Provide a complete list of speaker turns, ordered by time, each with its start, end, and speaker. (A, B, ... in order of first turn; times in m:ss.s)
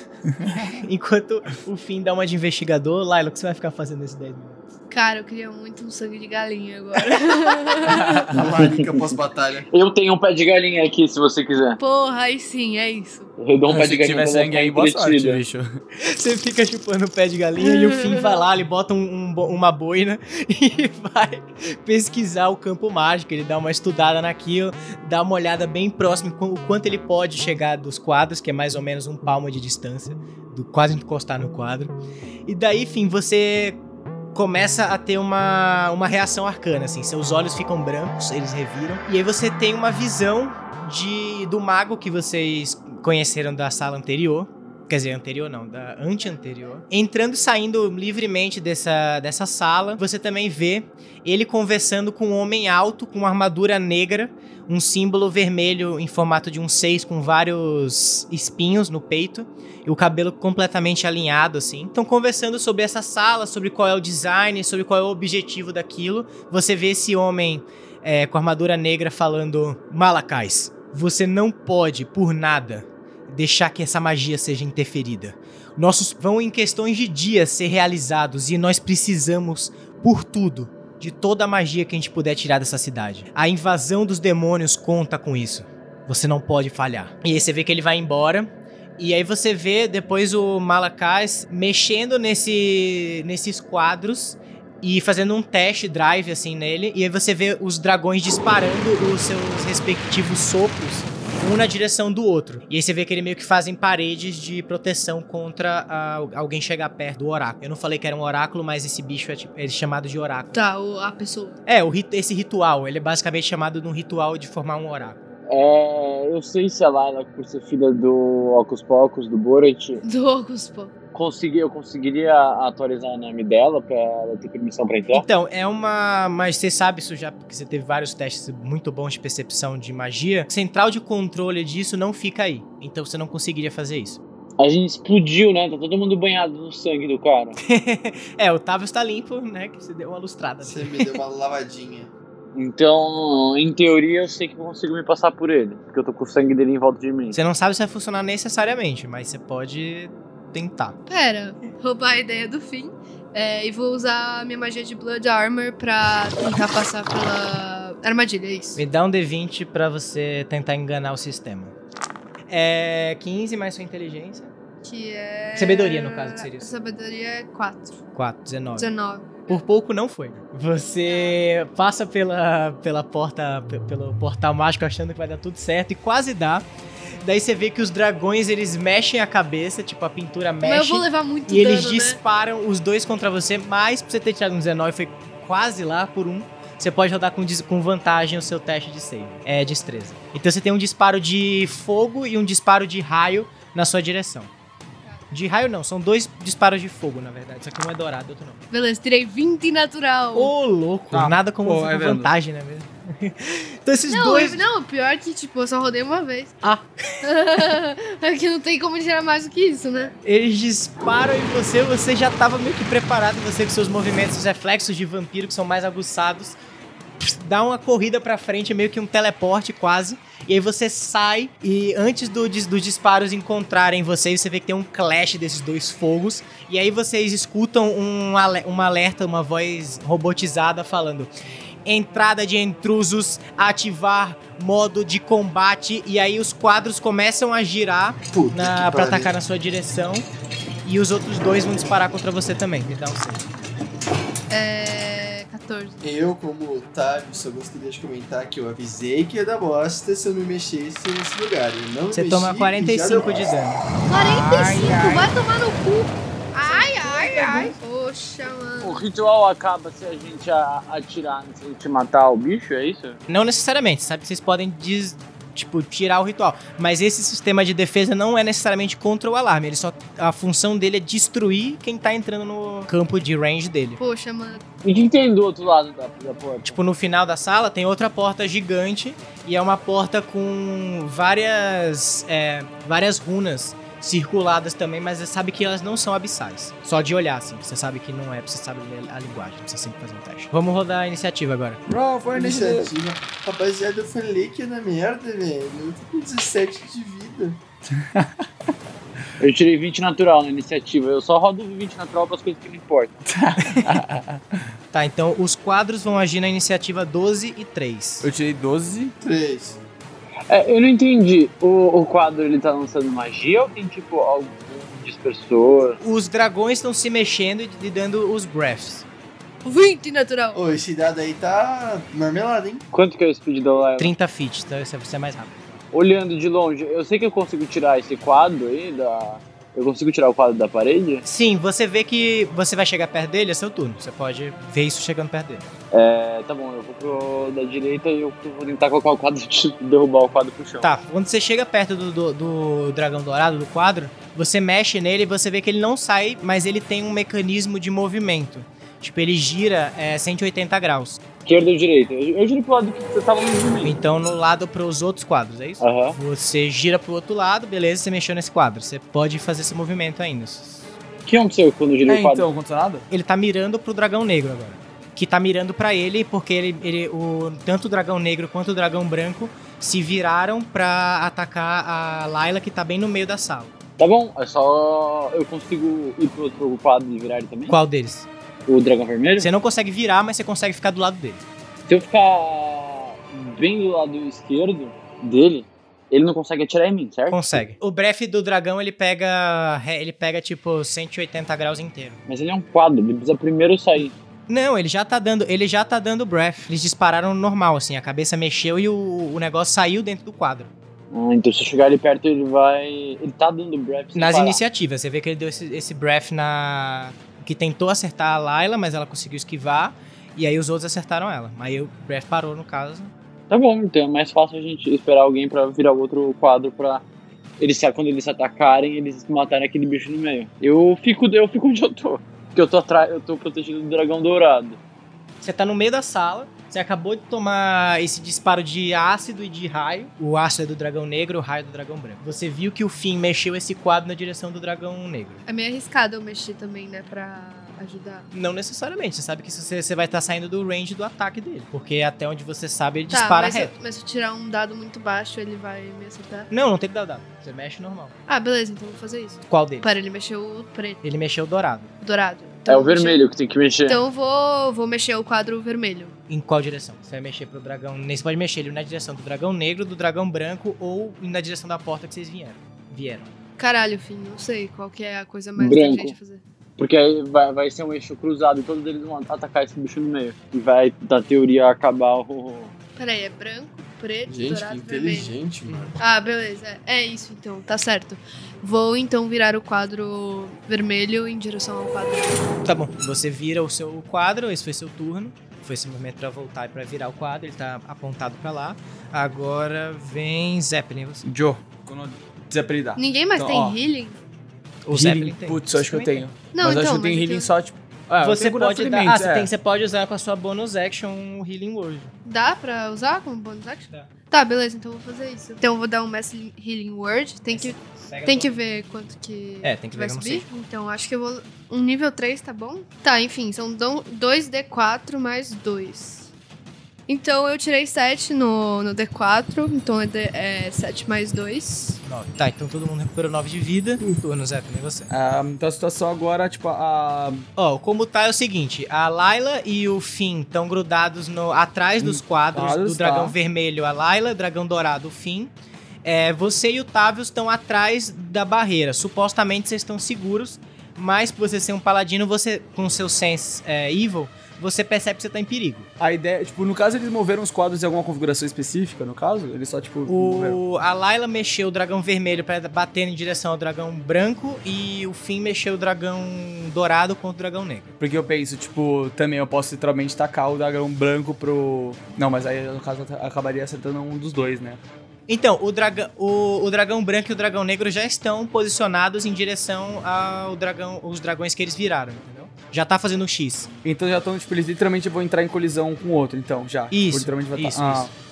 0:00.4-0:00.8 A
0:00.6-0:04.6 B
0:04.9-0:08.2 C
0:07.8-0:08.3 A
0:08.3-0:09.7 D
0:08.6-0:09.1 E
0:09.7-0:11.8 E
0:11.8-0:13.3 C
0:13.4-0:15.4 E
0:13.7-0:15.7 A
0:16.0-0:31.9 B
0:17.7-0:18.4 C
0:32.5-0:33.8 B
0:34.3-1:50.6 B
0:46.2-0:46.8 C
1:50.5-1:51.6 C
1:51.7-1:55.2 B
1:55.5-2:00.0 E
2:00.0-2:00.9 C
2:01.1-2:05.2 E
2:05.1-2:14.2 B
2:14.6-2:17.6 E
2:17.6-2:21.2 B
2:20.6-2:22.1 D
2:22.6-2:27.4 E
2:27.3-2:31.0 B
2:31.1-2:38.8 C
2:38.8-2:41.7 B
2:42.5-2:44.5 B
2:44.8-2:48.0 C
2:45.6-2:46.7 B
2:48.1-2:48.9 B
2:48.8-2:49.6 C
2:49.5-2:56.6 B
2:51.0-2:51.4 C
2:57.2-3:14.5 B
3:00.6-3:02.2 C
3:15.3-3:18.6 B
3:18.7-3:20.5 C
3:20.4-3:24.7 B
3:21.1-3:22.3 A
3:24.1-3:26.6 C
3:27.2-3:30.1 C
3:30.2-3:36.6 B
3:37.2-3:51.3 B
3:51.8-4:00.3 B
3:58.3-3:59.3 D
4:00.8-4:03.5 B
4:04.5-4:06.0 C
4:06.0-4:13.6 D
4:12.1-4:15.3 B
4:14.1-4:19.0 C
4:16.6-4:17.8 B
4:18.8-4:23.2 E
4:23.3-4:34.0 B
4:34.0-4:34.6 C
4:34.8-4:36.8 E
4:36.6-4:51.8 B
4:51.9-4:52.9 A
4:52.3-4:57.6 D
4:58.0-4:58.4 A
4:59.4-5:03.3 E
5:03.3-5:04.4 A
5:03.7-5:04.0 B
5:04.9-5:08.3 B
5:08.2-5:09.1 A
5:09.2-5:09.8 D
5:10.5-5:16.0 E
5:16.0-5:19.1 B
5:19.6-5:20.6 C
5:20.5-5:22.8 D
5:22.9-5:24.2 E
5:24.0-5:25.6 B
5:25.9-5:31.2 E
5:31.2-5:35.7 B
5:35.9-5:40.9 E
5:40.8-5:51.2 B
5:51.4-5:54.0 E
5:53.8-6:00.9 B
5:55.8-5:56.2 E
6:01.3-6:02.5 E
6:02.1-6:03.1 A
6:03.1-6:13.7 B
6:14.0-6:17.8 E
6:17.7-6:18.3 B
6:18.7-6:19.5 E
6:19.4-6:21.4 B
6:21.9-6:27.6 E
6:27.3-6:32.2 B
6:32.3-6:34.1 E
6:34.5-6:40.7 B
6:41.1-6:44.6 E
6:44.1-6:53.1 B
6:53.5-6:57.0 E
6:57.6-7:04.8 E
7:05.4-7:15.4 B
7:15.5-7:18.3 C
7:18.3-7:23.7 B
7:23.1-7:26.5 C
7:26.5-7:28.1 B
7:28.3-7:31.0 C
7:29.5-7:29.9 B
7:31.0-7:31.9 B
7:32.0-7:33.2 C
7:32.7-7:34.0 E
7:33.9-7:36.2 C
7:36.3-7:43.3 B
7:43.6-7:46.4 C
7:45.6-7:46.1 E
7:46.8-7:52.7 E
7:53.0-7:55.3 C
7:54.3-7:56.0 D
7:55.7-7:56.0 B
7:56.0-8:02.4 C
8:02.6-8:11.2 B
8:11.2-8:13.8 A
8:13.0-8:14.2 C
8:14.8-8:16.2 B
8:14.9-8:19.5 A
8:16.5-8:17.5 C
8:18.2-8:22.1 B
8:22.2-8:36.3 C
8:27.5-8:28.6 B
8:29.6-8:30.5 B
8:37.1-8:42.0 C
8:42.0-8:45.1 B
8:45.1-8:47.5 A
8:47.6-8:55.5 B
8:52.0-8:53.4 A
8:56.0-9:05.9 B
9:06.0-9:10.6 A
9:10.1-9:17.9 B
9:18.0-9:24.8 A
9:25.3-9:33.7 B
9:33.8-9:38.1 A
9:36.9-9:38.1 B